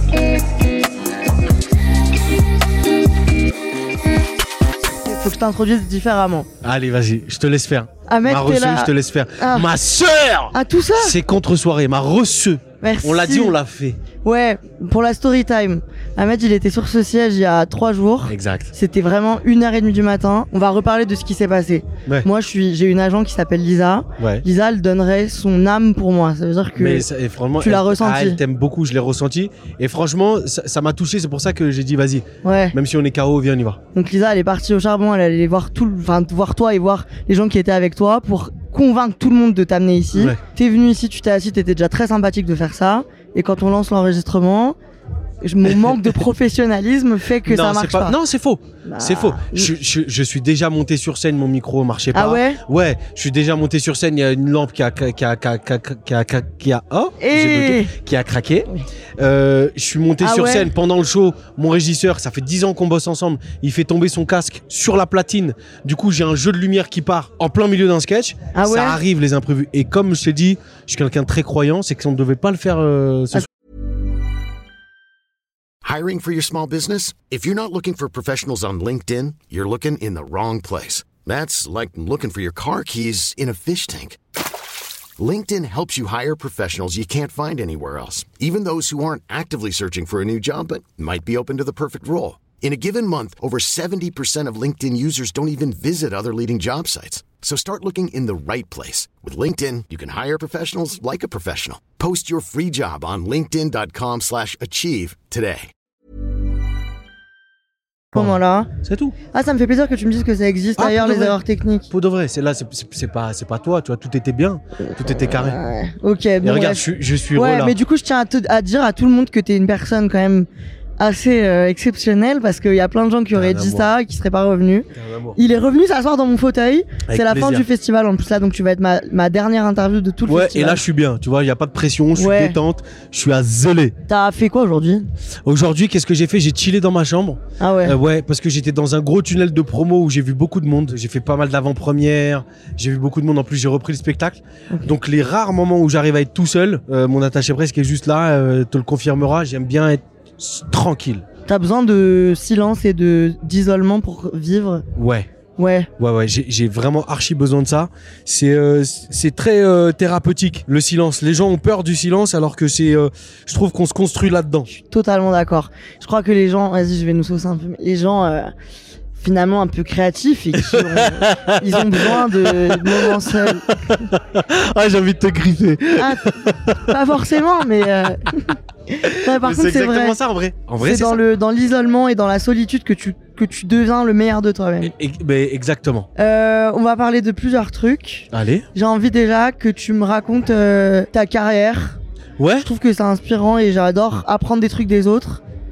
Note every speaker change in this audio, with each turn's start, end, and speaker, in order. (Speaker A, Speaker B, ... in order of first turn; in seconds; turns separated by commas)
Speaker A: 5.0-6.5, Speaker B: 6.6-14.0, Speaker A: 8.1-9.7, Speaker A: 10.5-11.2, Speaker A: 12.8-13.5, Speaker A: 14.2-27.1, Speaker B: 18.3-18.7, Speaker B: 24.2-24.4, Speaker B: 26.8-33.8, Speaker A: 27.6-28.4, Speaker A: 32.4-32.8, Speaker A: 33.9-44.8, Speaker B: 40.1-40.4, Speaker A: 45.4-48.2, Speaker B: 45.8-46.1, Speaker B: 47.4-73.5, Speaker A: 48.8-49.7, Speaker A: 52.1-52.6, Speaker A: 57.2-57.9, Speaker A: 60.2-60.7, Speaker A: 68.5-69.0, Speaker C: 75.8-84.2, Speaker C: 85.2-105.7, Speaker A: 108.1-108.7, Speaker B: 108.1-109.2, Speaker A: 109.3-111.9, Speaker B: 110.8-111.4, Speaker B: 111.9-115.6, Speaker A: 114.8-120.5, Speaker B: 116.4-117.8, Speaker A: 121.0-130.8, Speaker B: 123.3-123.9, Speaker B: 124.9-125.4, Speaker B: 127.1-127.7, Speaker B: 130.3-133.9, Speaker A: 132.1-132.6, Speaker A: 134.1-135.1, Speaker B: 135.4-151.2, Speaker A: 137.6-137.9, Speaker A: 151.4-154.8, Speaker B: 154.9-155.3, Speaker A: 155.6-155.9, Speaker B: 156.0-164.7, Speaker A: 164.7-168.5, Speaker A: 169.2-173.7, Speaker B: 170.6-177.0, Speaker A: 176.0-180.2, Speaker B: 179.0-181.2, Speaker A: 180.8-184.9, Speaker B: 184.8-186.1, Speaker A: 186.2-192.0, Speaker B: 188.3-188.7, Speaker B: 192.4-192.7, Speaker A: 192.6-195.4